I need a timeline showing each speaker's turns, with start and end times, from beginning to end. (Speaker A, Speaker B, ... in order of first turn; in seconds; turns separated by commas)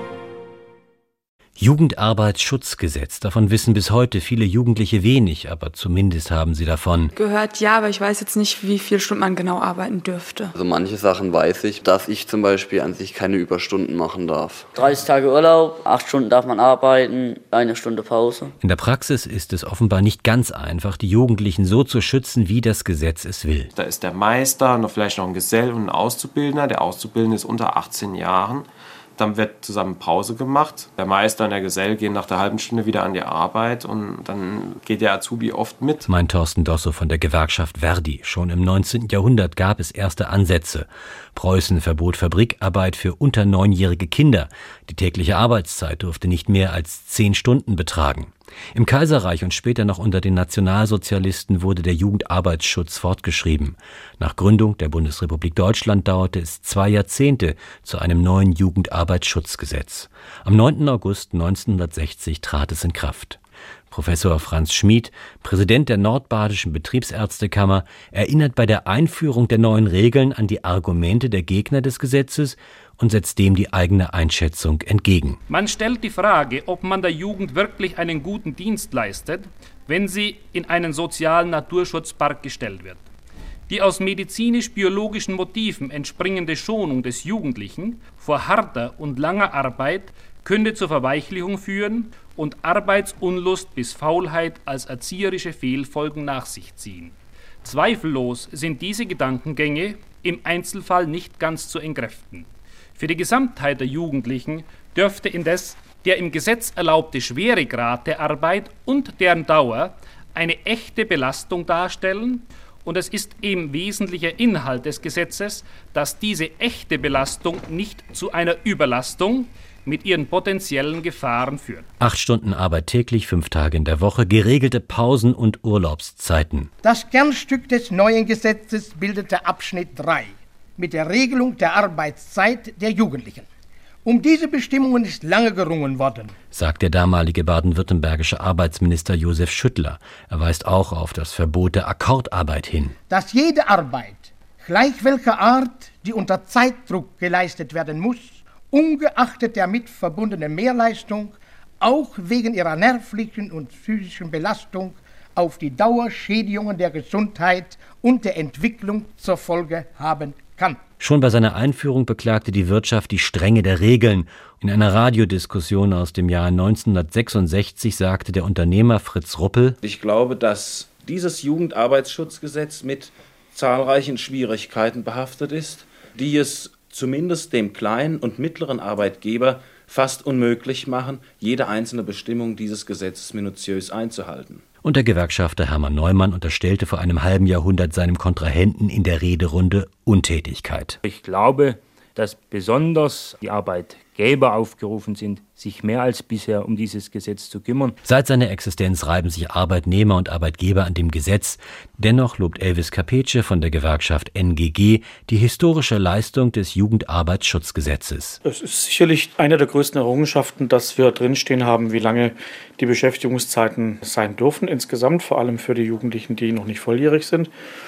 Speaker A: 1.6-7.1, Speaker B: 7.2-10.5, Speaker C: 10.5-14.7, Speaker D: 14.7-18.5, Speaker A: 18.6-23.7, Speaker E: 23.7-36.1, Speaker A: 36.1-63.4, Speaker A: 63.9-75.4, Speaker F: 75.5-83.0, Speaker F: 83.7-121.9, Speaker A: 122.0-126.7, Speaker G: 126.8-133.4, Speaker G: 134.0-136.3, Speaker A: 136.5-142.9, Speaker G: 143.1-160.8, Speaker A: 161.0-169.8, Speaker H: 169.8-184.6, Speaker A: 184.8-191.0, Speaker I: 191.0-197.9, Speaker A: 198.0-208.4, Speaker J: 208.4-217.5